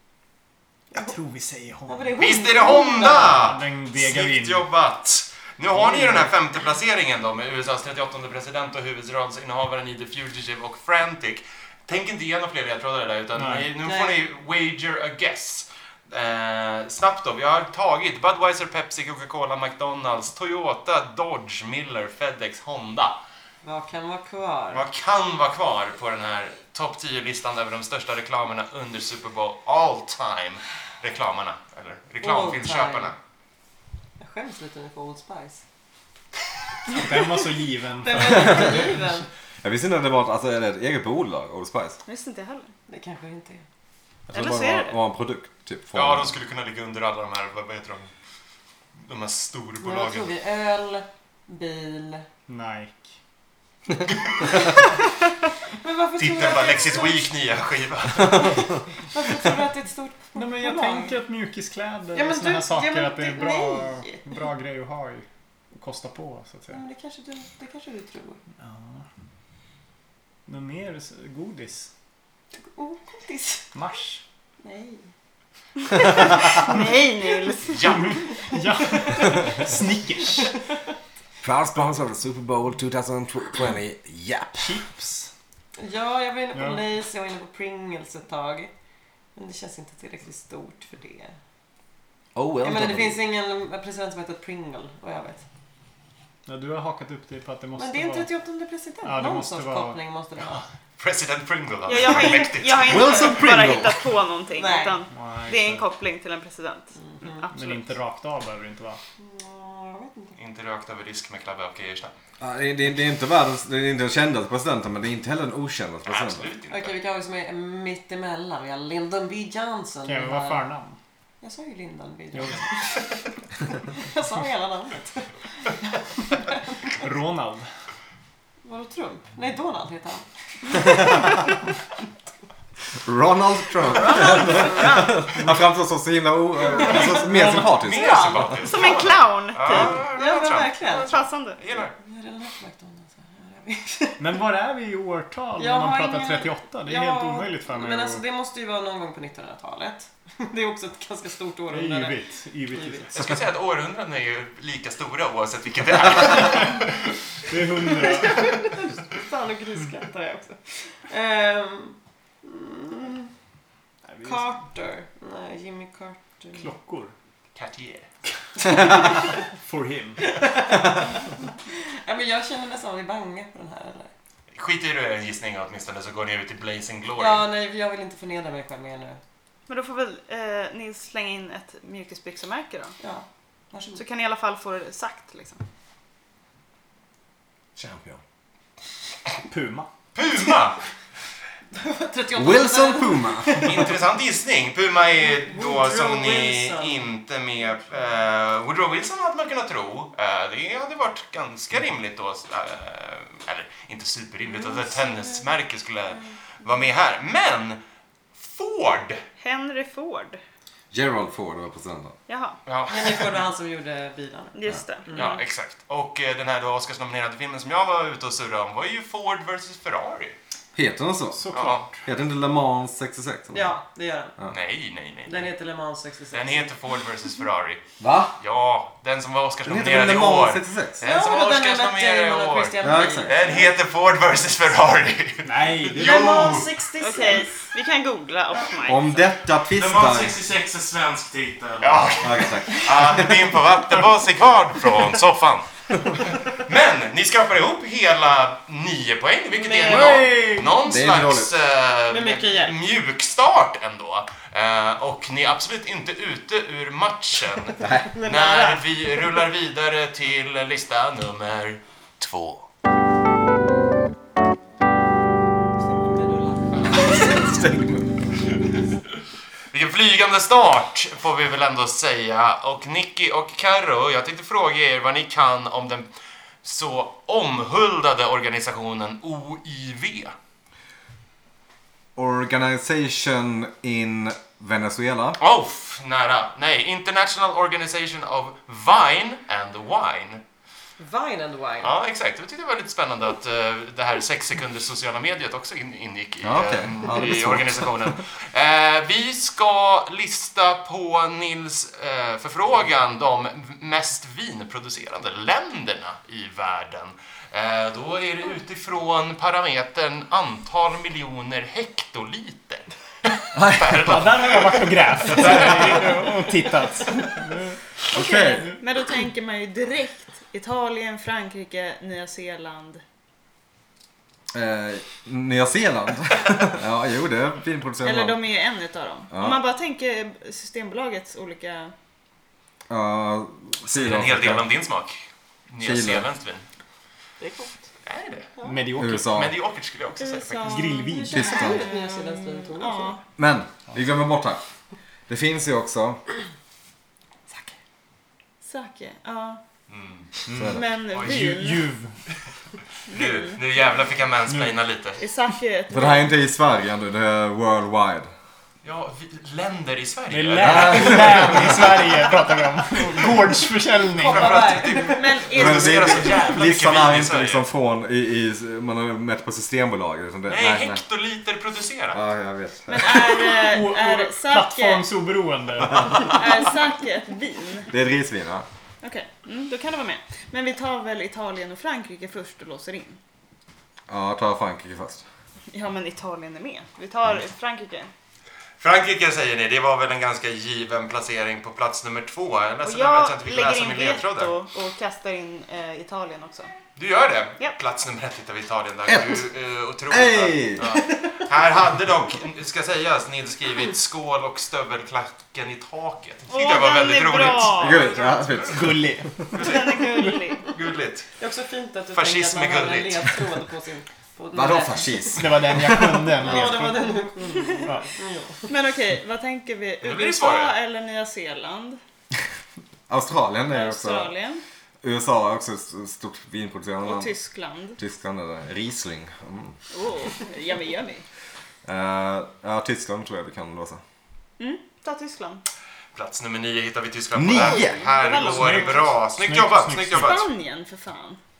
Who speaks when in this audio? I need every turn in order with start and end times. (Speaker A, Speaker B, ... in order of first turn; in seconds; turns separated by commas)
Speaker A: 0.9-2.2, Speaker B: 1.9-3.4, Speaker C: 2.2-23.2, Speaker A: 3.0-4.7, Speaker A: 5.7-6.3, Speaker A: 13.3-13.7, Speaker B: 13.8-14.2, Speaker B: 23.6-24.8, Speaker C: 24.7-33.1, Speaker B: 32.2-33.1, Speaker B: 34.2-35.6, Speaker A: 36.9-38.9, Speaker B: 38.0-39.3, Speaker D: 38.5-38.8, Speaker D: 39.6-42.0, Speaker E: 42.0-42.7, Speaker B: 42.9-43.6, Speaker D: 44.3-46.3, Speaker E: 44.3-45.0, Speaker C: 45.9-48.1, Speaker C: 49.0-50.3, Speaker B: 49.8-52.2, Speaker A: 52.5-53.0, Speaker B: 55.8-57.3, Speaker C: 56.2-58.7, Speaker B: 58.4-61.2, Speaker A: 60.3-66.8, Speaker B: 62.1-64.3, Speaker B: 66.7-68.4, Speaker A: 68.6-69.0, Speaker A: 70.5-71.9, Speaker B: 72.5-73.7, Speaker A: 73.7-74.2, Speaker B: 74.6-75.1, Speaker E: 75.8-78.1, Speaker C: 77.7-78.2, Speaker A: 77.9-80.6, Speaker B: 78.9-79.5, Speaker D: 81.4-84.8, Speaker A: 84.6-85.3, Speaker B: 85.8-88.7, Speaker A: 86.5-86.8, Speaker B: 89.3-91.3, Speaker D: 92.3-93.2, Speaker B: 92.6-95.4, Speaker A: 96.5-98.3, Speaker B: 97.8-100.6, Speaker A: 99.0-100.0, Speaker C: 101.0-103.5, Speaker E: 101.9-107.8, Speaker D: 102.8-104.0, Speaker B: 104.5-105.0, Speaker A: 105.1-105.8, Speaker B: 107.0-107.5, Speaker A: 107.5-109.0, Speaker B: 109.2-110.4, Speaker C: 110.4-112.1, Speaker D: 112.4-116.5, Speaker C: 116.0-117.0, Speaker B: 116.7-120.7, Speaker A: 120.0-121.0, Speaker B: 121.4-126.9, Speaker A: 122.3-122.7, Speaker A: 126.9-127.7, Speaker B: 128.6-131.1, Speaker D: 133.0-138.5, Speaker E: 133.8-135.3, Speaker B: 136.7-138.8, Speaker C: 137.6-141.9, Speaker E: 138.6-140.0, Speaker B: 139.7-141.1, Speaker E: 140.9-141.6, Speaker B: 141.8-144.3, Speaker A: 144.2-148.2, Speaker B: 145.6-152.2, Speaker A: 151.7-153.4, Speaker B: 152.7-153.1, Speaker C: 153.1-157.1, Speaker A: 157.5-158.6, Speaker B: 157.9-163.3, Speaker A: 164.0-164.6, Speaker B: 164.2-166.7, Speaker A: 166.5-167.1, Speaker C: 167.5-168.1, Speaker B: 168.6-169.4, Speaker A: 168.7-170.4, Speaker B: 170.2-171.1, Speaker B: 171.8-174.1, Speaker C: 174.5-177.4, Speaker B: 177.2-179.2, Speaker E: 179.7-182.9, Speaker B: 183.0-184.0, Speaker E: 183.9-185.6, Speaker D: 187.8-188.2, Speaker A: 189.5-189.9, Speaker C: 190.1-190.8, Speaker B: 191.7-193.9, Speaker D: 192.3-193.9, Speaker C: 193.6-207.8, Speaker B: 195.2-197.1, Speaker E: 204.8-205.0, Speaker C: 208.3-209.2, Speaker E: 209.4-210.4, Speaker D: 210.9-212.2, Speaker E: 212.3-212.6, Speaker C: 212.7-213.3, Speaker B: 212.9-215.4, Speaker E: 214.5-215.3, Speaker C: 215.1-220.3, Speaker D: 220.7-221.5, Speaker A: 221.3-222.0, Speaker C: 221.5-221.8, Speaker D: 222.0-223.7, Speaker B: 223.5-224.3, Speaker C: 224.5-225.5, Speaker B: 225.3-226.7, Speaker C: 226.3-227.8, Speaker D: 228.0-228.3, Speaker C: 228.4-236.7, Speaker D: 229.6-231.0, Speaker B: 231.0-233.7, Speaker D: 232.8-233.3, Speaker A: 235.4-236.1, Speaker B: 235.9-237.5, Speaker E: 237.0-239.2, Speaker D: 238.8-240.4, Speaker F: 239.7-242.3, Speaker C: 241.8-245.7, Speaker D: 242.2-243.5, Speaker C: 246.2-262.6, Speaker B: 249.5-250.7, Speaker D: 250.8-251.5, Speaker B: 252.1-252.8, Speaker D: 257.8-258.1, Speaker B: 258.1-259.2, Speaker B: 265.8-267.1, Speaker C: 266.8-267.2, Speaker D: 266.9-268.0, Speaker C: 269.7-276.1, Speaker C: 276.6-280.3, Speaker D: 282.1-285.4, Speaker C: 285.4-290.4, Speaker B: 291.0-291.9, Speaker C: 291.8-312.9, Speaker D: 296.4-298.2, Speaker D: 313.5-314.5, Speaker C: 313.7-316.4, Speaker A: 314.0-317.8, Speaker E: 318.1-323.0, Speaker D: 318.1-318.7, Speaker D: 324.5-328.4, Speaker E: 328.0-331.9, Speaker D: 329.3-329.6, Speaker D: 332.9-334.7, Speaker C: 333.9-336.6, Speaker D: 335.8-336.3, Speaker B: 337.4-337.7, Speaker C: 338.0-338.5, Speaker A: 338.6-339.3, Speaker D: 338.9-339.5, Speaker C: 339.1-340.9, Speaker E: 340.2-343.2, Speaker A: 340.6-341.6, Speaker D: 341.3-341.9, Speaker B: 341.5-343.2, Speaker D: 343.4-344.6, Speaker D: 345.3-346.2, Speaker E: 348.6-349.6, Speaker C: 349.9-350.4, Speaker D: 350.5-350.8, Speaker E: 350.6-351.9, Speaker C: 351.1-351.5, Speaker A: 351.2-352.2, Speaker C: 353.1-355.2, Speaker E: 353.1-353.6, Speaker A: 354.5-354.8, Speaker E: 355.2-356.3, Speaker D: 355.9-358.3, Speaker C: 358.8-362.1, Speaker A: 360.3-364.7, Speaker D: 360.6-361.8, Speaker B: 364.1-365.3, Speaker C: 364.2-367.6, Speaker E: 365.1-366.5, Speaker D: 365.5-371.0, Speaker C: 370.5-372.2, Speaker D: 372.1-373.3, Speaker E: 372.9-375.1, Speaker A: 373.3-376.4, Speaker D: 375.9-376.2, Speaker E: 376.1-377.9, Speaker D: 377.9-378.6, Speaker E: 379.0-383.2, Speaker D: 384.1-385.2, Speaker E: 385.7-388.1, Speaker C: 388.8-394.5, Speaker E: 392.8-396.7, Speaker C: 396.9-408.7, Speaker D: 399.1-399.5, Speaker D: 400.1-401.0, Speaker E: 406.5-408.2, Speaker D: 407.7-409.3, Speaker A: 408.7-410.3, Speaker C: 409.5-410.1, Speaker E: 409.6-410.7, Speaker C: 410.6-411.3, Speaker B: 411.4-415.4, Speaker C: 412.1-413.4, Speaker D: 414.5-416.4, Speaker A: 415.4-417.2, Speaker B: 416.4-418.7, Speaker E: 417.6-417.9, Speaker E: 418.7-422.0, Speaker C: 420.0-420.8, Speaker D: 423.1-424.3, Speaker E: 423.7-424.6, Speaker D: 425.0-427.3, Speaker E: 427.0-428.0, Speaker D: 428.0-429.8, Speaker E: 429.9-431.2, Speaker D: 431.8-434.0, Speaker E: 434.6-435.6, Speaker C: 436.1-440.4, Speaker D: 437.3-438.1, Speaker E: 437.5-439.1, Speaker A: 438.4-440.4, Speaker E: 440.1-441.4